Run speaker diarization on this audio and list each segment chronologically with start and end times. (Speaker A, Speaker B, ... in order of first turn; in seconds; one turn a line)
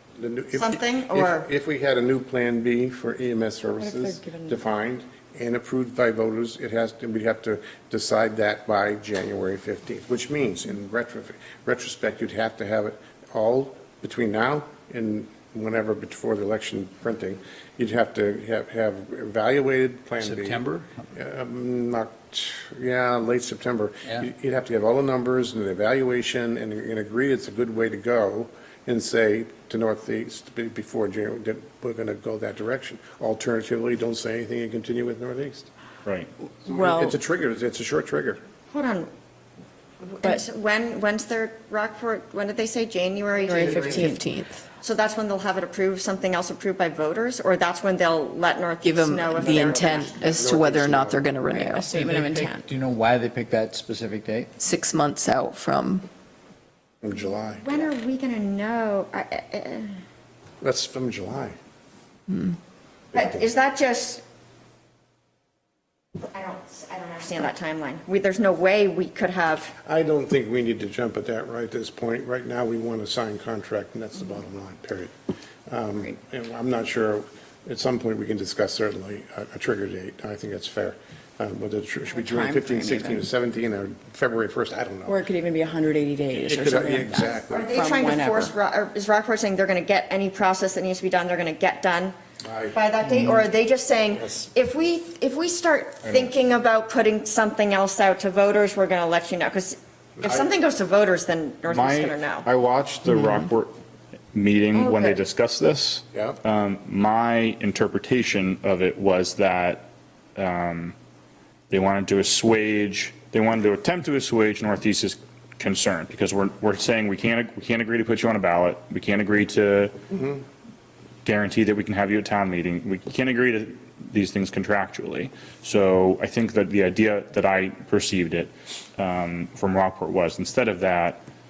Speaker A: 0.2-35.7
Speaker B: 0.5-1.5
Speaker B: 3.8-4.6
Speaker C: 20.2-20.9
Speaker D: 36.6-37.2
Speaker A: 36.6-38.4
Speaker B: 38.7-39.1
Speaker B: 40.0-44.2
Speaker A: 43.4-44.1
Speaker D: 43.5-44.2
Speaker E: 43.8-44.5
Speaker B: 44.8-50.4
Speaker E: 48.8-51.9
Speaker A: 50.3-51.2
Speaker B: 51.5-52.6
Speaker C: 51.9-54.5
Speaker E: 54.6-56.0
Speaker A: 57.0-57.8
Speaker B: 57.6-59.9
Speaker A: 60.6-61.5
Speaker A: 63.1-63.4
Speaker B: 63.1-64.2
Speaker B: 66.3-69.8
Speaker A: 69.8-75.1
Speaker A: 75.7-85.2
Speaker D: 82.1-83.2
Speaker D: 85.0-88.5
Speaker A: 86.3-87.8
Speaker B: 87.5-92.2
Speaker A: 92.4-92.8
Speaker B: 92.7-102.5
Speaker A: 94.2-94.5
Speaker A: 100.2-100.5
Speaker F: 101.7-103.7
Speaker F: 104.3-109.8
Speaker A: 106.1-106.4
Speaker F: 110.3-111.0
Speaker F: 111.7-119.9
Speaker A: 120.1-120.4
Speaker F: 121.2-131.2